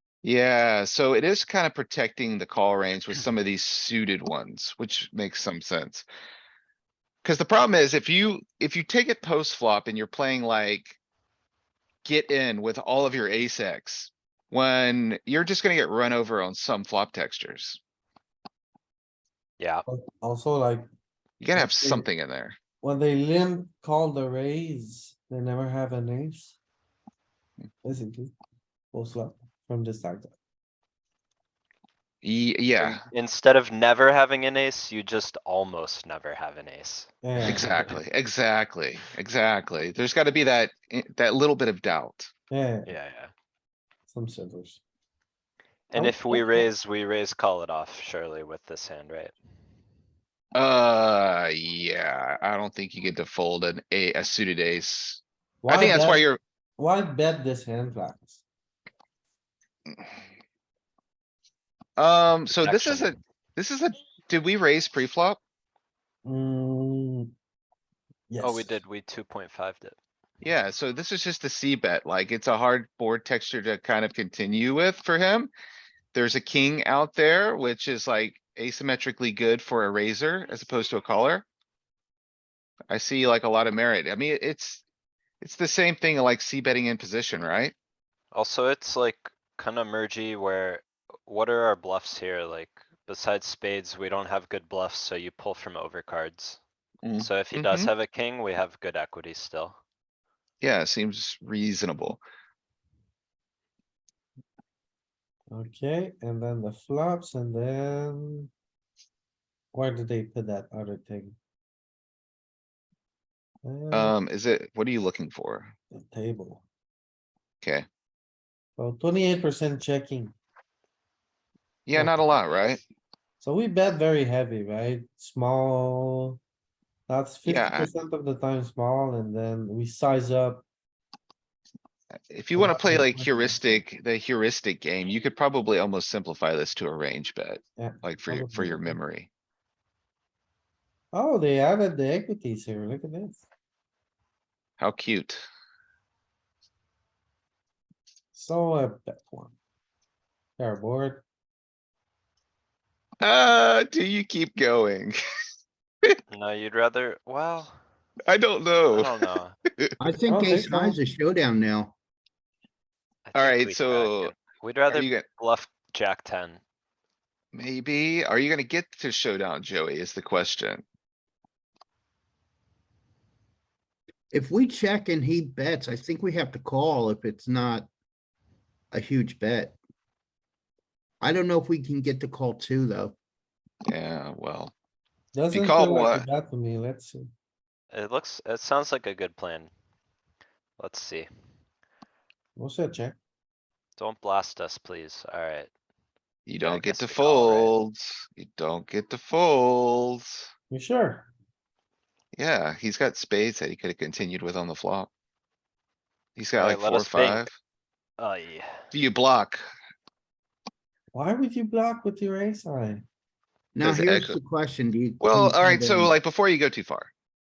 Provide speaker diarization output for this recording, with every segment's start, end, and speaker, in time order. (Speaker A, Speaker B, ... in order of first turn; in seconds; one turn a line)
Speaker A: 0.2-6.0
Speaker A: 7.2-11.0
Speaker A: 12.0-17.8
Speaker B: 19.6-19.8
Speaker C: 19.9-20.9
Speaker A: 21.4-22.6
Speaker C: 21.5-22.1
Speaker C: 22.8-26.6
Speaker C: 27.8-28.3
Speaker C: 28.9-30.3
Speaker A: 32.2-33.0
Speaker B: 32.8-38.0
Speaker C: 37.2-37.8
Speaker A: 37.4-42.3
Speaker C: 42.5-42.9
Speaker B: 42.9-43.3
Speaker C: 44.1-44.8
Speaker B: 45.9-49.3
Speaker C: 45.9-46.6
Speaker A: 50.5-56.4
Speaker C: 55.6-56.2
Speaker C: 56.8-58.4
Speaker A: 62.0-65.4
Speaker B: 62.5-63.2
Speaker C: 66.2-67.3
Speaker C: 68.3-68.8
Speaker B: 68.4-70.0
Speaker A: 70.4-75.5
Speaker A: 76.1-81.5
Speaker A: 82.9-84.8
Speaker A: 85.4-87.7
Speaker B: 88.3-96.6
Speaker A: 97.0-97.9
Speaker B: 97.2-99.8
Speaker A: 100.6-102.2
Speaker C: 105.5-108.5
Speaker C: 109.7-111.3
Speaker C: 113.6-114.1
Speaker A: 113.9-115.7
Speaker C: 115.9-116.6
Speaker C: 118.8-120.3
Speaker A: 121.8-122.8
Speaker C: 121.9-122.3
Speaker C: 123.4-126.4
Speaker C: 127.1-130.6
Speaker A: 127.4-127.9
Speaker A: 132.3-139.3
Speaker C: 132.5-133.8
Speaker C: 137.8-139.0
Speaker C: 141.1-143.4
Speaker A: 144.8-145.4
Speaker C: 148.3-149.5
Speaker C: 150.6-151.2
Speaker A: 153.2-155.2
Speaker B: 156.3-157.8
Speaker A: 158.3-159.2
Speaker B: 158.9-159.6
Speaker D: 160.0-161.9
Speaker C: 160.3-161.0
Speaker B: 163.2-166.6
Speaker A: 163.3-164.3
Speaker A: 164.9-165.2
Speaker A: 167.5-170.8
Speaker D: 174.3-177.9
Speaker D: 178.9-179.8
Speaker D: 181.2-183.1
Speaker A: 183.9-184.7
Speaker C: 185.3-187.3
Speaker A: 185.5-186.3
Speaker B: 187.9-189.7
Speaker B: 190.8-191.3
Speaker C: 192.6-193.2
Speaker B: 194.0-195.7
Speaker A: 196.4-200.4
Speaker B: 196.6-197.7
Speaker C: 200.7-201.3
Speaker A: 202.3-205.1
Speaker A: 206.3-207.5
Speaker B: 206.6-207.5
Speaker B: 208.2-208.9
Speaker A: 208.9-209.6
Speaker C: 211.1-213.0
Speaker D: 213.7-216.2
Speaker A: 213.8-214.4
Speaker A: 215.2-217.1